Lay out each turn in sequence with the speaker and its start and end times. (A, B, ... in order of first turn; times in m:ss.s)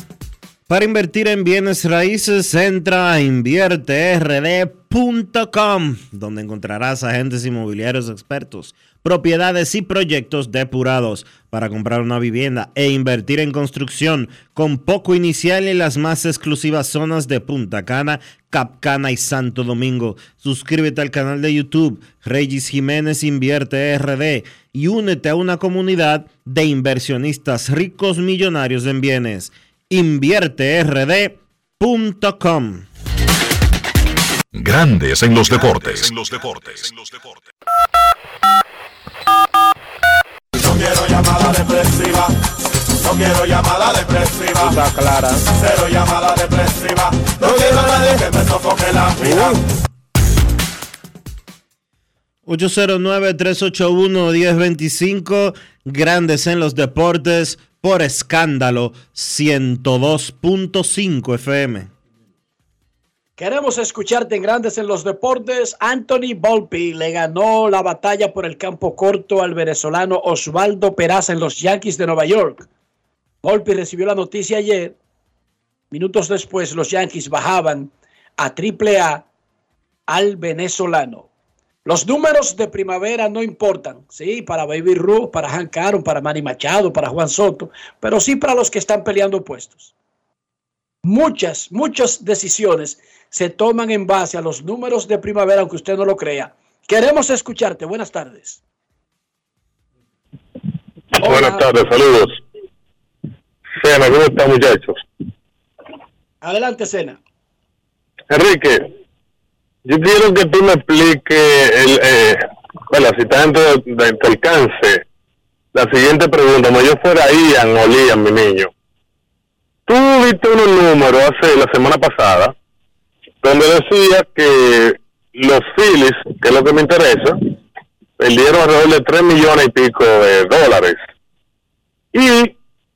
0:00.7-0:32.8 A
0:34.5-0:37.4 B
0:40.5-0:42.3 C
0:43.0-0:49.6 C
0:52.4-1:01.9 A
1:03.4-1:12.7 D
1:13.4-1:15.0 D
1:15.9-1:19.2 D
1:20.1-1:21.3 D
1:21.8-1:29.9 D
1:31.0-1:38.6 D
1:41.2-1:42.4 E
1:41.2-1:41.7 D
1:43.8-1:45.0 E
1:46.4-1:47.2 D
1:48.3-1:48.9 E
1:49.8-1:55.0 E
1:55.7-1:58.7 E
1:59.9-2:02.5 E
2:03.4-2:07.4 E
2:08.2-2:11.0 E
2:12.1-2:12.5 E